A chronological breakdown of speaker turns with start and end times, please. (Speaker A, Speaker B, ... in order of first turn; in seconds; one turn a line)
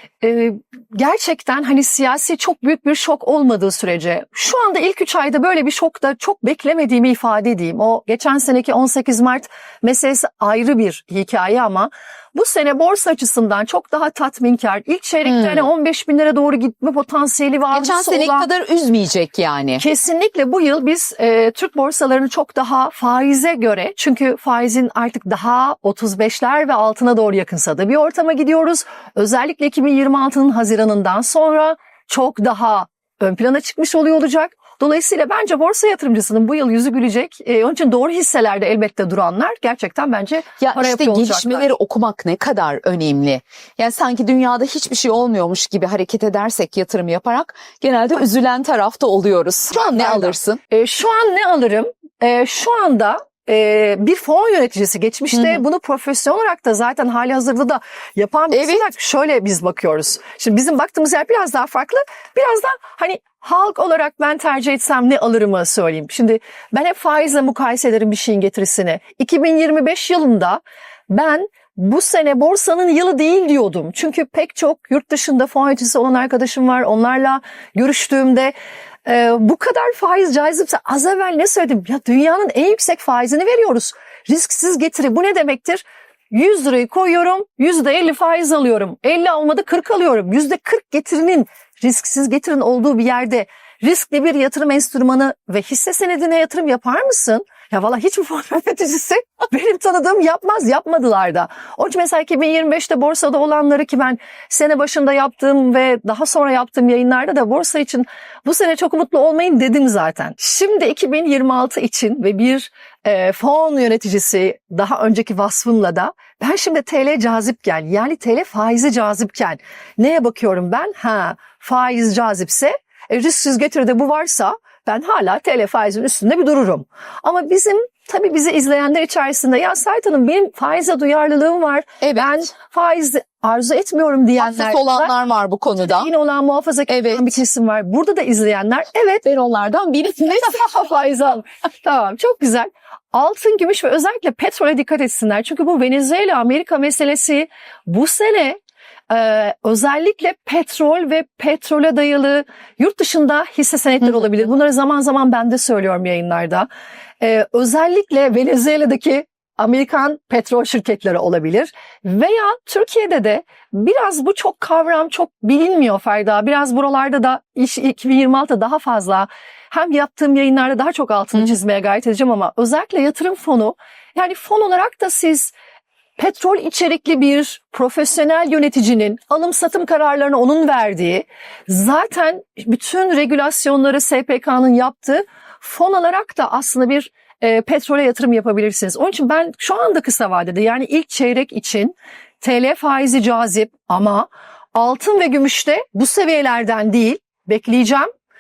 Speaker A: 0.2-18.5
Speaker B: 15.2-15.7
Speaker B: 17.7-19.8
Speaker A: 19.8-41.7
Speaker B: 40.6-50.6
Speaker A: 49.7-135.1
Speaker B: 55.3-55.6
Speaker B: 58.5-58.8
Speaker B: 132.0-132.3
Speaker B: 134.4-136.1
Speaker A: 135.8-139.2
Speaker B: 136.9-137.4
Speaker B: 139.2-140.6
Speaker A: 140.3-148.6
Speaker A: 149.1-156.7
Speaker A: 157.2-175.5
Speaker A: 176.2-198.1